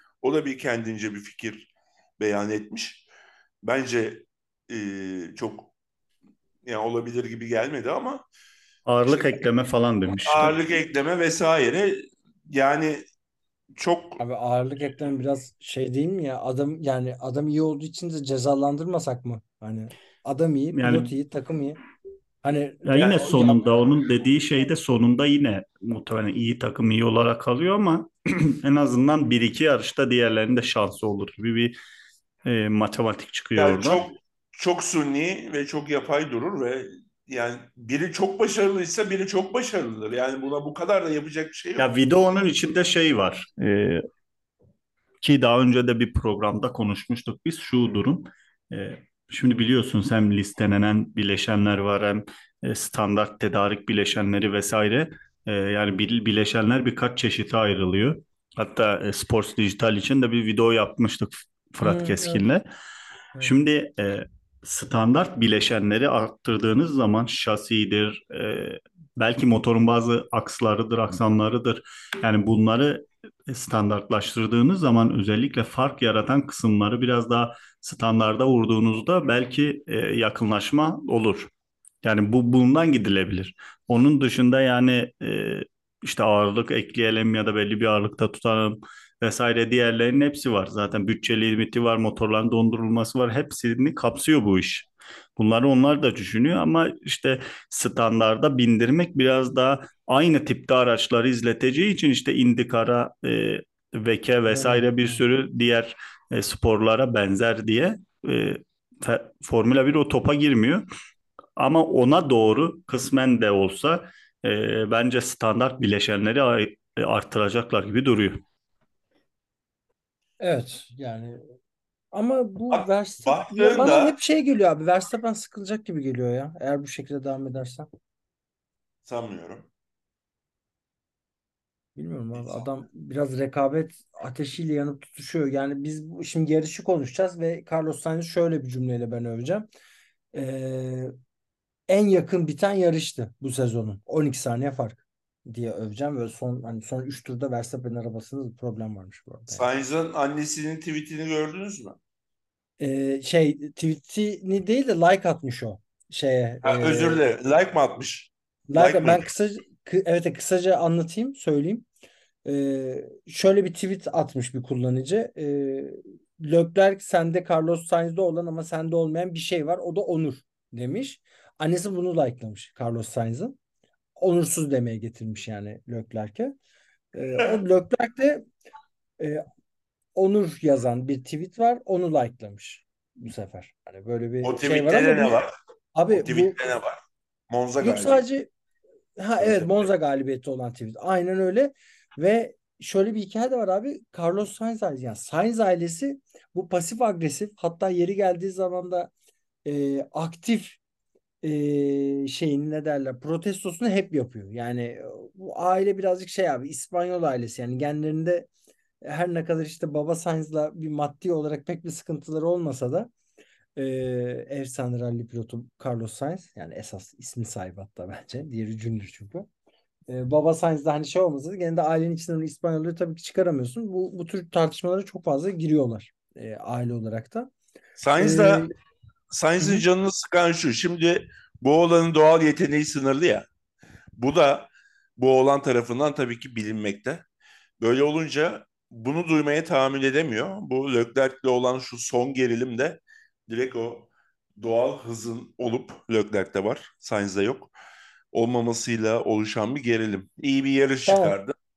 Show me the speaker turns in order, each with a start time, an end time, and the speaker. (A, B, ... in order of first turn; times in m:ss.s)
0:00.2-0:03.0 A
0:03.6-0:05.7 A
0:06.6-0:08.2 A
0:08.9-0:10.6 B
0:09.1-0:09.4 A
0:10.2-0:13.1 A
0:13.8-0:14.2 A
0:14.2-0:21.8 C
0:20.7-0:21.2 B
0:22.4-0:23.6 C
0:22.8-0:31.8 B
0:23.0-0:23.5 A
0:32.4-0:34.0 B
0:33.6-0:41.9 A
0:41.8-0:44.0 B
0:45.2-1:02.6 B
1:01.8-1:02.4 C
1:03.4-1:21.5 B
1:22.0-1:50.9 B
1:44.5-1:45.1 C
1:51.6-1:58.4 B
2:00.4-2:01.4 C
2:02.1-2:07.9 C
2:02.7-2:04.2 A
2:09.1-2:09.7 A
2:12.0-2:19.7 C
2:12.3-2:12.7 A
2:20.3-2:21.1 C
2:21.9-2:29.7 C
2:29.5-2:32.0 A
2:32.8-2:37.2 C
2:36.6-2:39.3 A
2:38.7-2:41.9 C
2:42.4-2:53.6 C
2:54.2-2:56.6 C
2:57.1-2:58.5 C
2:59.2-2:59.4 C
3:00.2-3:05.4 C
3:04.4-3:05.5 A
3:06.0-3:06.6 C
3:06.1-3:08.2 A
3:07.8-3:08.5 C
3:09.2-3:19.1 C
3:09.4-3:09.8 A
3:19.6-3:20.8 C
3:21.4-3:28.5 C
3:29.0-3:33.1 C
3:33.8-3:39.5 C
3:40.1-3:47.5 C
3:48.0-3:48.7 A
3:48.2-3:48.7 C
3:49.3-3:53.5 A
3:49.6-3:49.8 C
3:54.2-3:57.2 A
3:57.8-4:07.7 A
4:08.3-4:11.5 A
4:11.1-4:11.4 C